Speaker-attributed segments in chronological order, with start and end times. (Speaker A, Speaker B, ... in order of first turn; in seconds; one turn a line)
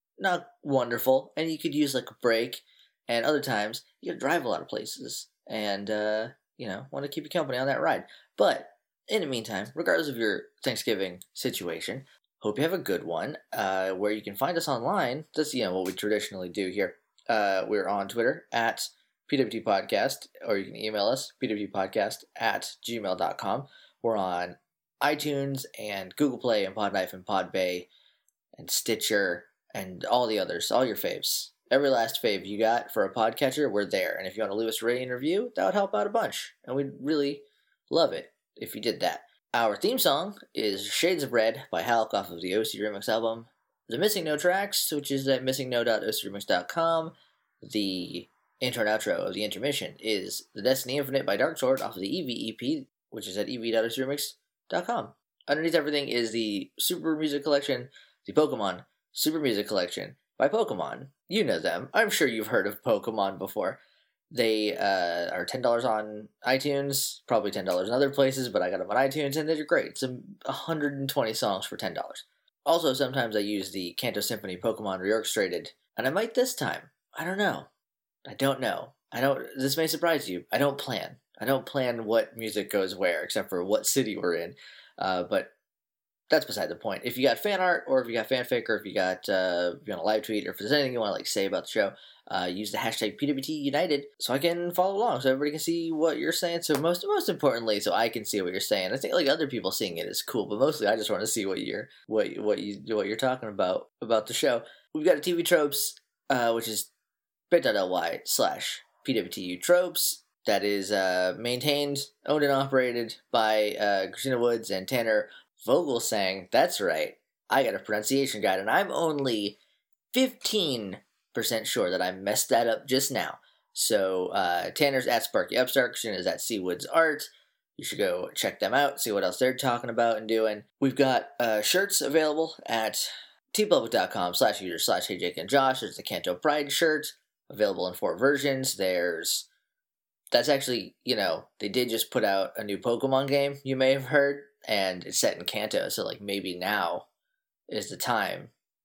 Speaker A: 0.2-27.9
Speaker A: 28.6-63.8
Speaker A: 64.3-77.7
Speaker A: 78.2-85.5
Speaker A: 86.3-106.9
Speaker A: 107.5-119.6
Speaker A: 120.1-139.5
Speaker A: 140.3-147.1
Speaker A: 147.7-148.5